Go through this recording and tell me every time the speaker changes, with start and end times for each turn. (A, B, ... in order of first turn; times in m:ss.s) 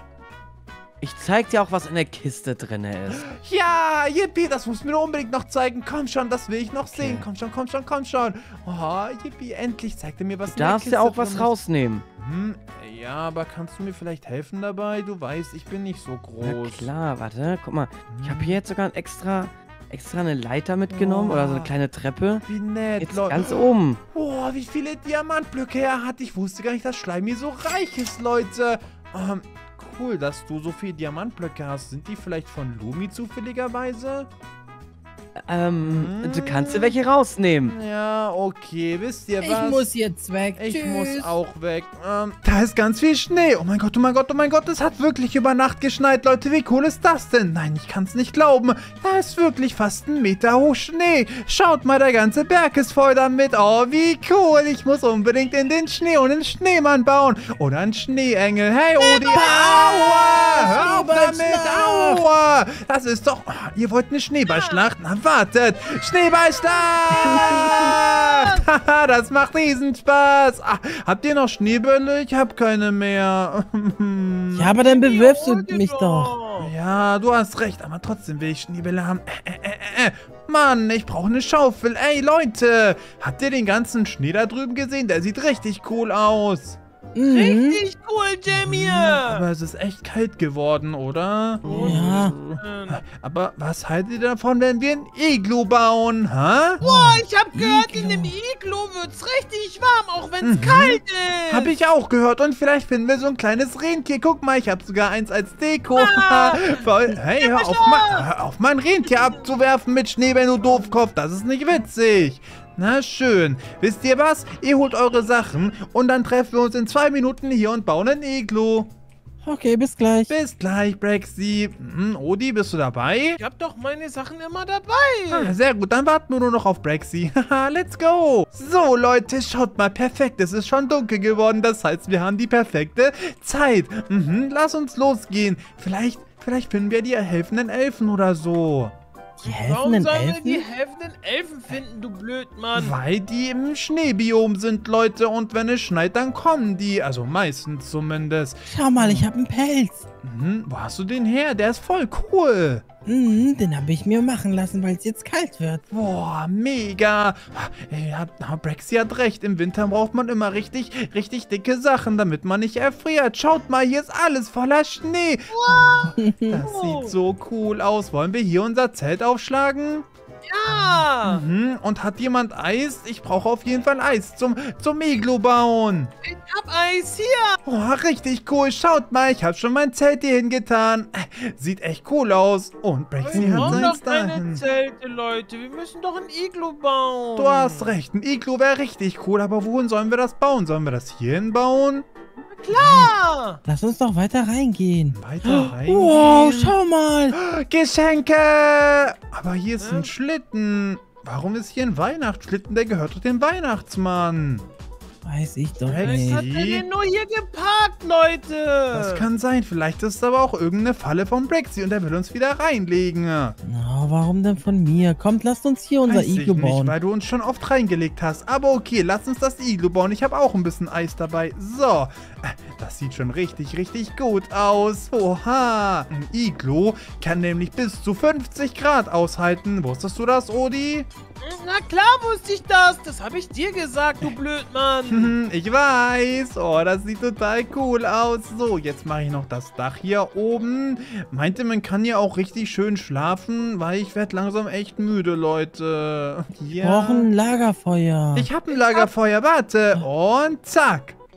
0:01.0-0:03.3 A
0:03.2-0:11.5 B
0:06.9-0:07.2 A
0:10.5-0:12.0 A
0:12.2-0:16.9 B
0:16.4-0:22.4 A
0:18.1-0:18.6 B
0:20.9-0:21.7 B
0:22.5-0:34.3 B
0:23.0-0:24.0 A
0:35.4-0:37.7 A
0:35.8-0:36.9 B
0:37.7-0:39.9 B
0:39.4-0:41.3 C
0:40.6-1:14.8 B
0:59.1-1:02.2 C
1:04.5-1:04.8 D
1:07.1-1:08.6 D
1:07.2-1:07.9 C
1:14.6-1:16.4 C
1:14.8-1:16.7 D
1:16.6-1:26.8 B
1:27.1-1:27.8 C
1:27.3-1:29.4 D
1:28.5-1:36.8 B
1:31.6-1:33.0 D
1:31.7-1:32.4 C
1:36.8-1:41.7 D
1:36.8-1:38.3 C
1:40.4-1:58.9 B
1:46.0-1:46.8 D
1:47.3-1:48.3 D
1:59.4-2:00.3 C
2:00.3-2:03.4 B
2:03.4-2:05.6 D
2:05.3-2:18.9 B
2:19.4-2:20.6 C
2:19.5-2:22.9 D
2:22.8-2:29.3 B
2:28.7-2:30.0 C
2:30.2-2:32.8 B
2:33.1-2:35.8 C
2:35.9-2:50.0 B
2:45.5-2:46.1 D
2:46.1-2:46.6 C
2:46.7-2:47.1 D
2:50.5-2:51.4 D
2:50.7-2:56.1 B
2:56.2-2:57.6 D
2:57.6-3:04.6 B
3:03.2-3:07.9 D
3:03.4-3:03.9 C
3:07.4-3:12.0 B
3:12.5-3:13.6 D
3:12.7-3:13.1 C
3:13.6-3:17.4 C
3:15.1-3:16.8 B
3:17.3-3:24.6 B
3:19.8-3:20.1 D
3:25.2-3:26.4 C
3:25.8-3:26.8 B
3:26.0-3:29.3 D
3:28.9-3:33.6 B
3:33.6-3:37.0 C
3:36.1-3:51.1 B
3:51.4-3:55.3 D
3:55.1-4:07.3 B
4:06.8-4:08.5 C
4:08.4-4:11.2 B
4:08.7-4:09.1 D